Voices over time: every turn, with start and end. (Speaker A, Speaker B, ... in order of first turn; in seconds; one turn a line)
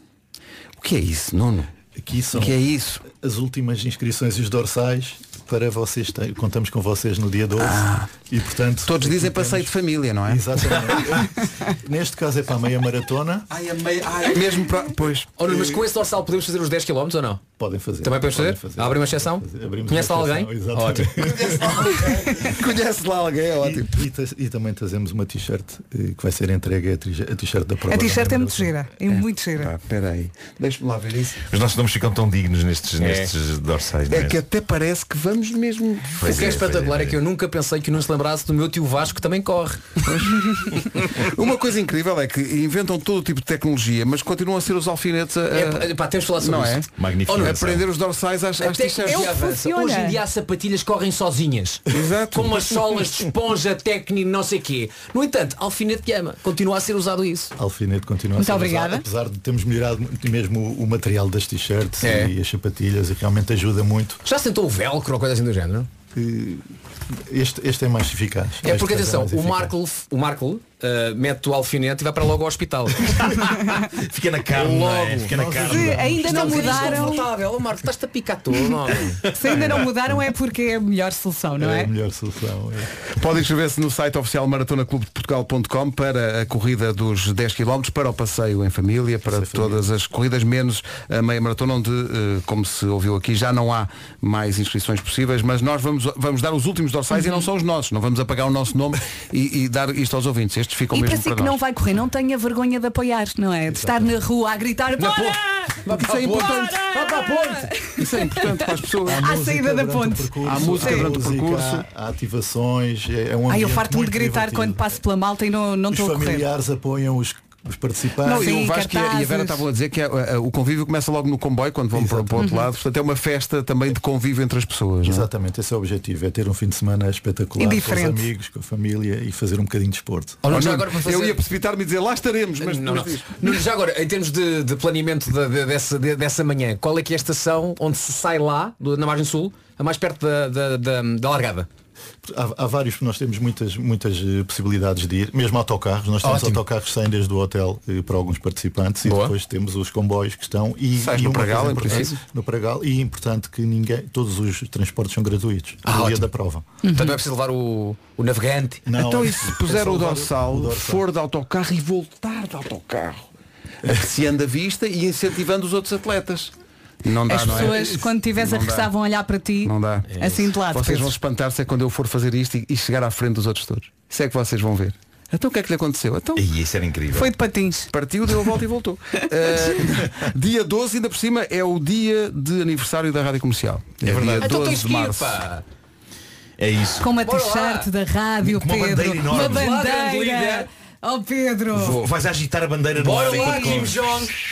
Speaker A: 0.8-1.7
Speaker B: 1.9-9.7
Speaker A: 2.3-3.0
Speaker A: 7.6-8.1
Speaker A: 8.8-10.4
Speaker B: 10.2-13.5
Speaker A: 13.5-15.3
Speaker C: 15.4-17.4
Speaker B: 15.5-15.8
Speaker B: 17.6-22.5
Speaker C: 18.0-21.1
Speaker A: 21.2-24.0
Speaker B: 23.6-28.7
Speaker D: 27.9-29.7
Speaker A: 29.1-31.4
Speaker E: 31.5-34.4
Speaker C: 33.0-33.3
Speaker A: 34.1-36.5
Speaker E: 36.2-37.2
Speaker C: 36.2-39.9
Speaker A: 40.0-49.3
Speaker C: 45.5-47.6
Speaker E: 47.0-47.8
Speaker C: 48.6-57.5
Speaker D: 49.0-50.2
Speaker A: 51.9-52.7
Speaker B: 57.6-64.2
Speaker D: 58.4-59.0
Speaker C: 62.0-62.3
Speaker C: 64.2-65.9
Speaker B: 66.1-66.6
Speaker B: 67.3-69.7
Speaker C: 68.6-73.2
Speaker E: 74.0-76.1
Speaker C: 74.5-79.3
Speaker B: 75.2-77.2
Speaker D: 75.6-77.3
Speaker D: 79.3-81.9
Speaker B: 81.6-82.9
Speaker A: 83.1-101.5
Speaker B: 89.2-89.8
Speaker D: 100.9-108.5
Speaker B: 103.7-104.1
Speaker C: 105.0-107.7
Speaker A: 105.9-106.8
Speaker A: 108.0-109.3
Speaker D: 109.1-111.1
Speaker B: 109.1-115.0
Speaker A: 110.4-111.8
Speaker D: 113.5-116.5
Speaker B: 115.9-118.5
Speaker A: 118.2-125.3
Speaker D: 118.3-119.6
Speaker B: 121.9-122.4
Speaker D: 122.4-122.7
Speaker B: 125.0-130.4
Speaker D: 127.6-128.3
Speaker C: 130.4-131.4
Speaker A: 130.5-133.3
Speaker C: 132.6-141.7
Speaker B: 142.2-156.7
Speaker C: 146.2-146.6
Speaker C: 149.0-149.3
Speaker A: 151.0-152.2
Speaker C: 155.8-156.3
Speaker C: 156.8-158.8
Speaker D: 156.9-157.2
Speaker B: 158.8-161.1
Speaker A: 158.9-163.3
Speaker A: 163.8-166.5
Speaker A: 167.0-168.9
Speaker D: 167.3-171.1
Speaker A: 169.6-170.1
Speaker C: 170.1-170.4
Speaker A: 170.7-176.5
Speaker E: 176.3-177.3
Speaker D: 177.1-177.9
Speaker A: 177.9-185.3
Speaker E: 184.1-184.4
Speaker C: 184.3-185.6
Speaker E: 186.6-187.1
Speaker D: 187.0-192.0
Speaker C: 187.2-187.9
Speaker E: 188.4-189.6
Speaker C: 189.3-190.7
Speaker E: 191.8-194.0
Speaker C: 192.9-194.3
Speaker D: 193.2-193.9